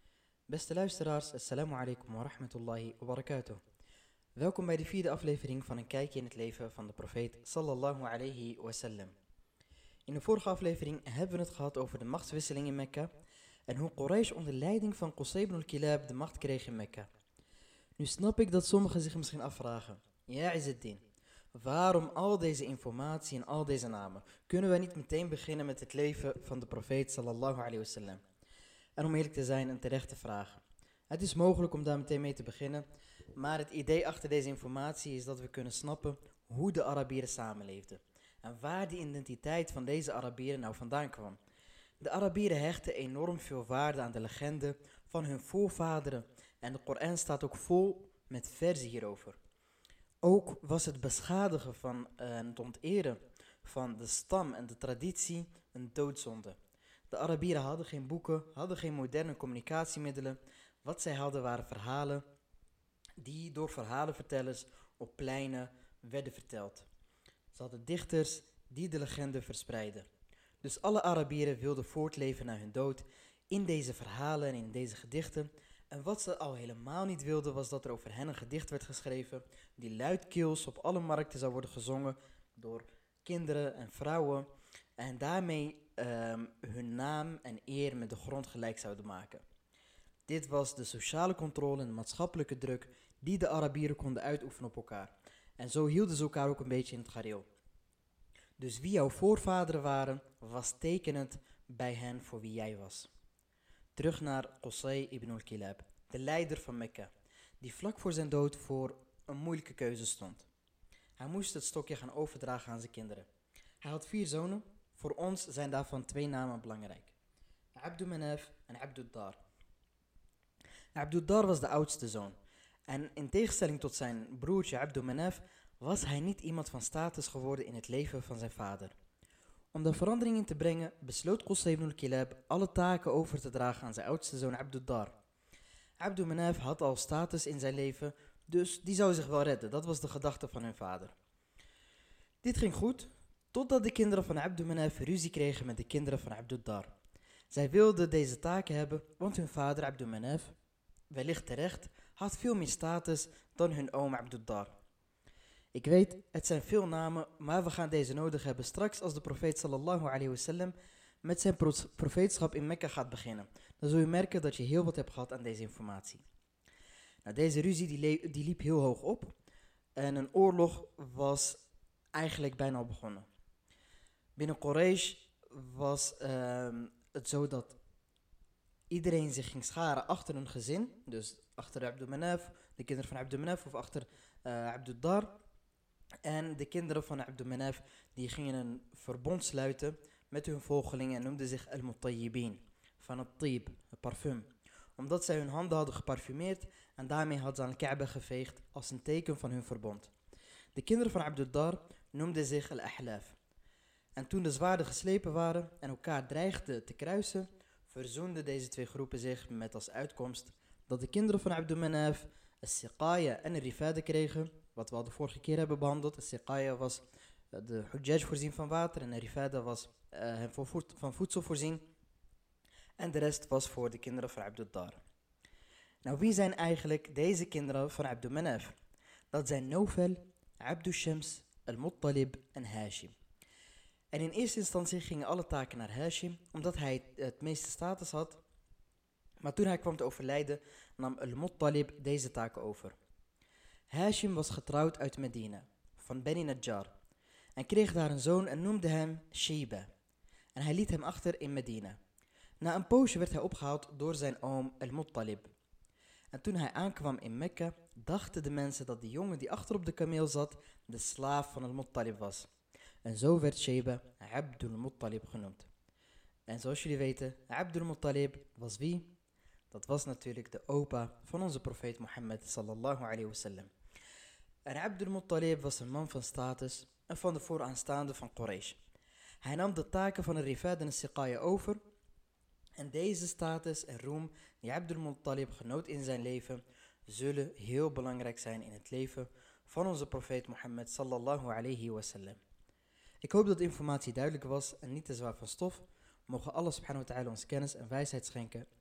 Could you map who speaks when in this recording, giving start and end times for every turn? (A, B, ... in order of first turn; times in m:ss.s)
0:00.5-0:03.6 A
0:04.4-0:09.2 A
0:10.1-0:13.1 A
0:13.7-0:17.1 A
0:18.0-0:21.0 A
0:21.6-0:28.2 A
0:29.0-0:32.8 A
0:33.4-0:41.4 A
0:42.0-0:49.4 A
0:50.2-0:56.6 A
0:57.1-1:02.2 A
1:03.2-1:06.9 A
1:07.5-1:10.1 A
1:10.6-1:29.4 A
1:30.3-1:37.5 A
1:38.6-1:43.1 A
1:44.0-1:50.5 A
1:51.2-1:53.3 A
1:53.8-1:57.2 A
1:57.8-1:59.4 A
2:01.0-2:02.4 A
2:02.9-2:08.9 A
2:09.7-2:15.2 A
2:16.0-2:21.1 A
2:22.4-2:26.9 A
2:27.5-2:30.5 A
2:31.1-2:34.8 A
2:35.8-2:46.2 A
2:47.2-2:49.3 A
2:50.0-2:51.6 A
2:52.2-2:53.2 A
2:54.4-2:57.8 A
2:58.9-3:05.4 A
3:06.2-3:20.1 A
3:20.8-3:23.4 A
3:24.2-3:41.8 A
3:43.0-3:45.0 A
3:46.0-3:48.8 A
3:49.3-3:53.2 A
3:54.1-3:58.4 A
3:59.4-4:03.0 A
4:03.9-4:06.9 A
4:07.6-4:09.9 A
4:10.6-4:12.0 A
4:12.6-4:15.5 A
4:16.3-4:22.5 A
4:23.0-4:25.7 A
4:26.5-4:29.1 A
4:29.7-4:33.7 A
4:34.7-4:38.8 A
4:39.4-4:41.8 A
4:42.8-4:52.4 A
4:53.2-4:58.7 A